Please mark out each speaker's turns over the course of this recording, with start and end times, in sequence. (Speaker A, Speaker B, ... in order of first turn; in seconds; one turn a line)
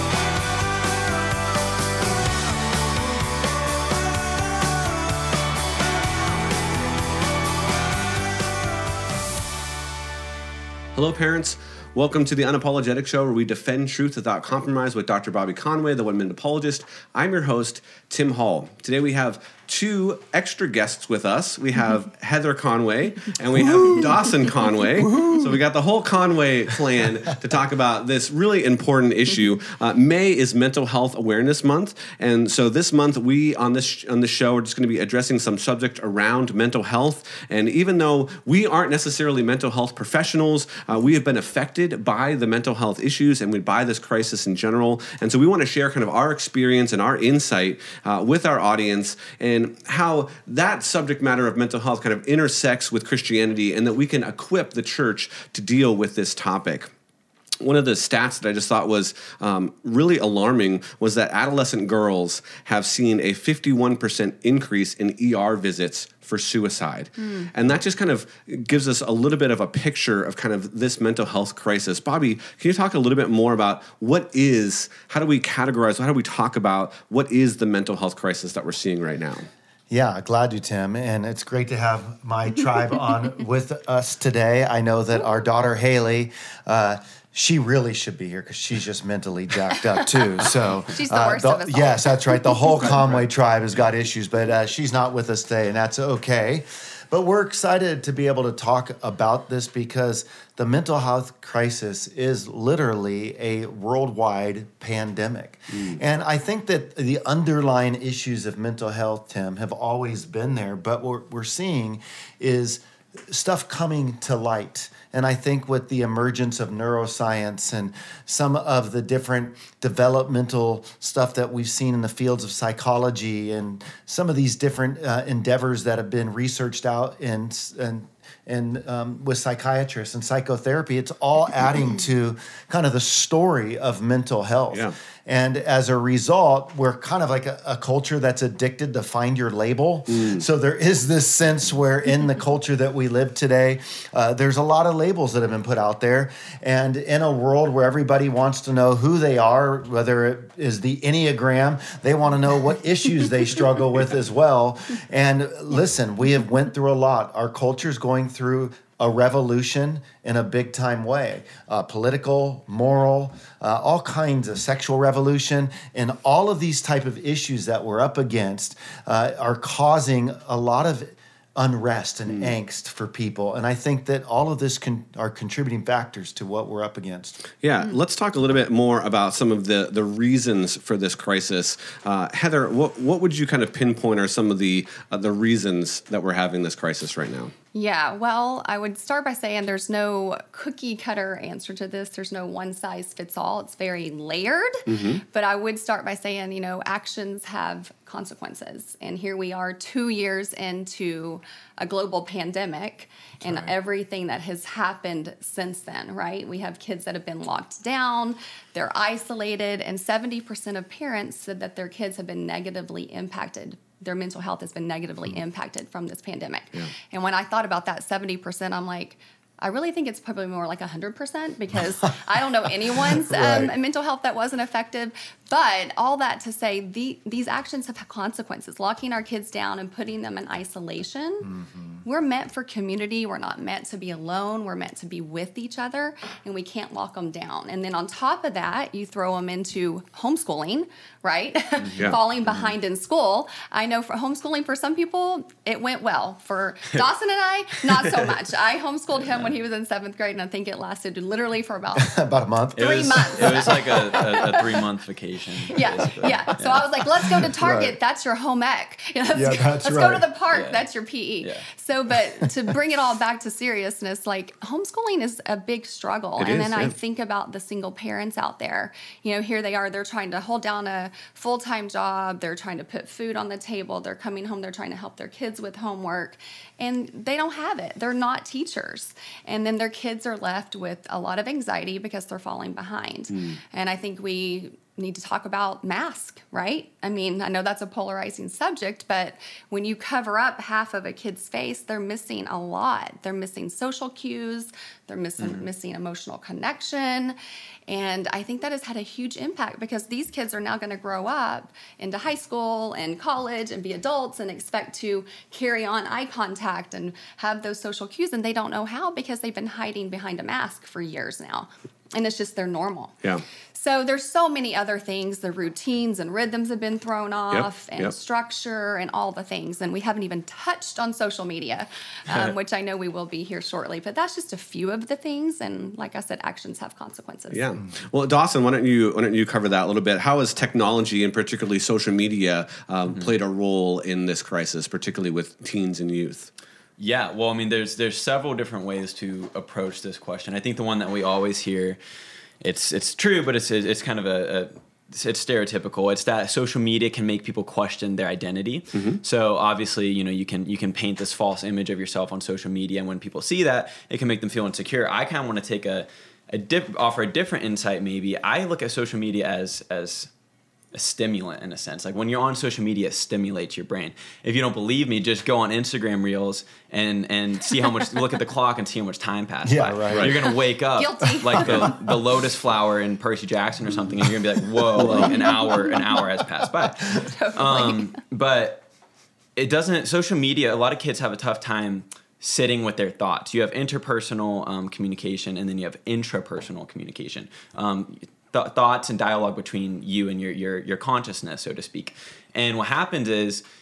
Speaker A: 10.9-56.9
Speaker A: 57.6-79.5
Speaker B: 67.2-67.5
Speaker C: 79.9-177.4
Speaker B: 90.9-92.9
Speaker A: 105.7-106.0
Speaker A: 140.1-140.4
Speaker A: 172.3-172.5
Speaker A: 177.6-187.5
Speaker B: 187.7-252.1
Speaker A: 194.9-195.2
Speaker C: 203.4-203.7
Speaker C: 223.1-223.7
Speaker C: 231.4-232.0
Speaker D: 241.8-242.1
Speaker C: 252.0-254.2
Speaker D: 252.8-257.1
Speaker B: 252.8-254.8
Speaker B: 255.7-297.4
Speaker C: 257.4-258.0
Speaker C: 259.3-260.2
Speaker D: 260.5-260.9
Speaker A: 266.4-266.9
Speaker A: 283.3-283.6
Speaker B: 297.9-313.2
Speaker B: 313.7-327.6
Speaker A: 317.5-318.1
Speaker A: 327.5-336.5
Speaker D: 337.0-342.0
Speaker D: 342.6-360.3
Speaker A: 348.9-349.2
Speaker D: 360.9-378.8
Speaker C: 369.6-370.3
Speaker B: 370.9-371.9
Speaker C: 371.6-371.9
Speaker A: 374.9-375.3
Speaker B: 375.0-376.2
Speaker C: 376.8-377.2
Speaker B: 377.1-378.1
Speaker D: 379.6-393.6